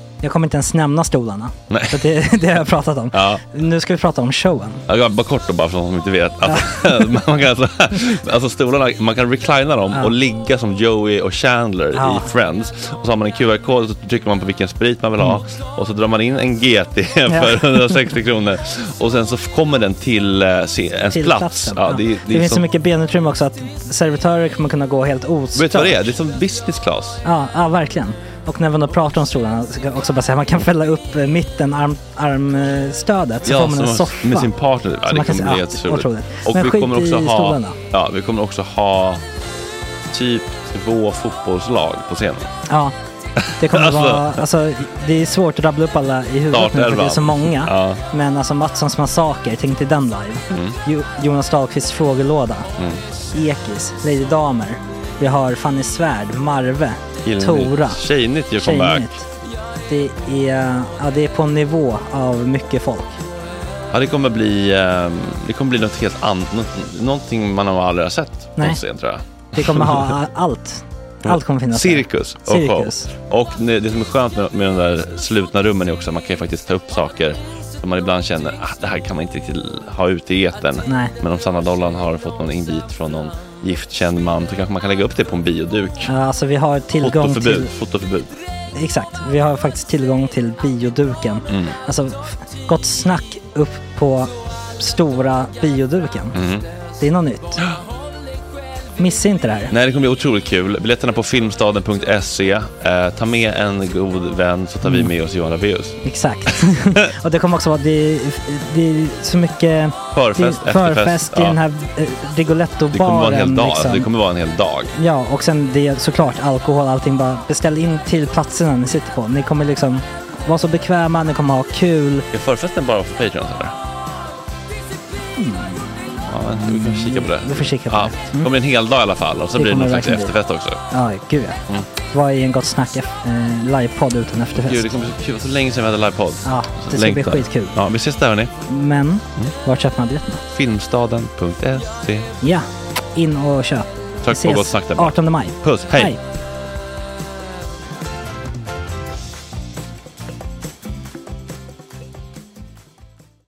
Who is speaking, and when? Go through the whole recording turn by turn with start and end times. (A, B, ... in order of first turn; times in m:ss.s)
0:00.2-0:04.8 A
0:01.7-0:02.1 B
0:03.1-0:03.4 B
0:04.9-0:22.7 B
0:06.4-0:07.0 A
0:11.9-0:12.3 A
0:15.2-0:15.4 A
0:17.3-0:18.0 A
0:21.1-0:26.1 A
0:25.5-0:27.2 B
0:27.2-0:34.5 A
0:33.4-0:39.2 B
0:35.0-0:37.8 A
0:40.1-0:42.5 B
0:42.7-0:42.9 A
0:43.4-0:44.4 B
0:43.6-0:52.7 A
0:46.5-0:48.0 B
0:50.5-0:50.8 B
0:53.3-0:58.0 A
0:57.2-0:59.1 B
0:58.6-0:59.3 A
0:59.8-1:03.2 A
1:03.9-1:10.2 B
1:09.5-1:13.1 A
1:11.3-1:26.1 B
1:20.8-1:21.1 A
1:26.0-1:27.7 A
1:27.0-1:28.3 B
1:28.7-1:36.4 A
1:31.5-1:31.8 B
1:36.3-1:36.6 B
1:37.0-1:37.6 A
1:39.0-1:39.7 A
1:39.7-1:46.0 B
1:44.8-1:45.1 A
1:46.0-1:54.1 A
1:50.1-1:51.6 B
1:52.9-1:54.9 B
1:55.0-2:02.3 A
2:02.3-2:03.7 B
2:05.4-2:08.5 A
2:06.3-2:10.8 B
2:09.5-2:10.3 A
2:10.9-2:15.1 A
2:14.6-2:18.5 B
2:16.4-2:17.8 A
2:18.7-2:20.4 A
2:20.5-2:22.2 B
2:22.4-2:26.2 A
2:24.2-2:26.1 B